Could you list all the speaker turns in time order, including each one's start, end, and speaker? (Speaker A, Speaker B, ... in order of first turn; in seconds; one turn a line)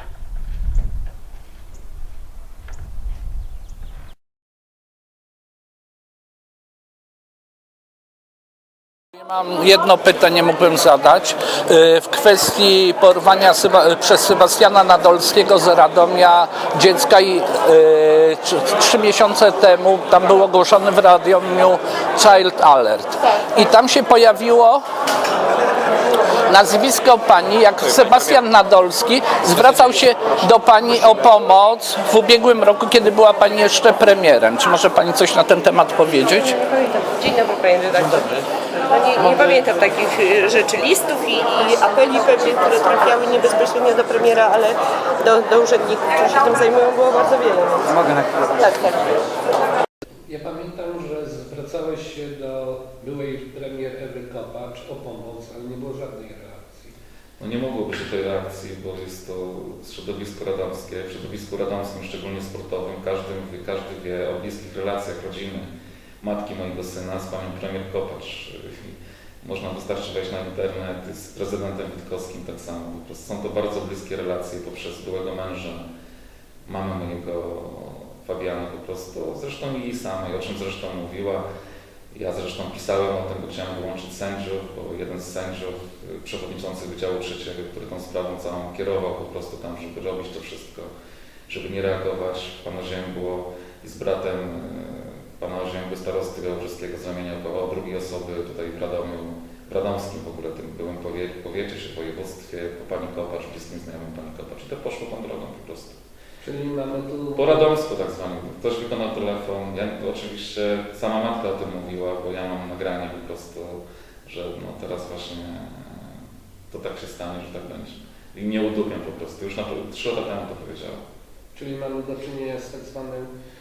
Speaker A: 9.2-24.8
Speaker A: 26.5-36.6
Speaker B: 36.5-49.2
Speaker C: 50.3-57.0
Speaker D: 57.4-65.7
Speaker D: 66.2-75.8
Speaker D: 76.7-81.5
Speaker D: 82.1-90.9
Speaker D: 91.5-106.0
Speaker C: 106.4-107.7
Speaker D: 107.4-121.0
Speaker C: 121.5-123.3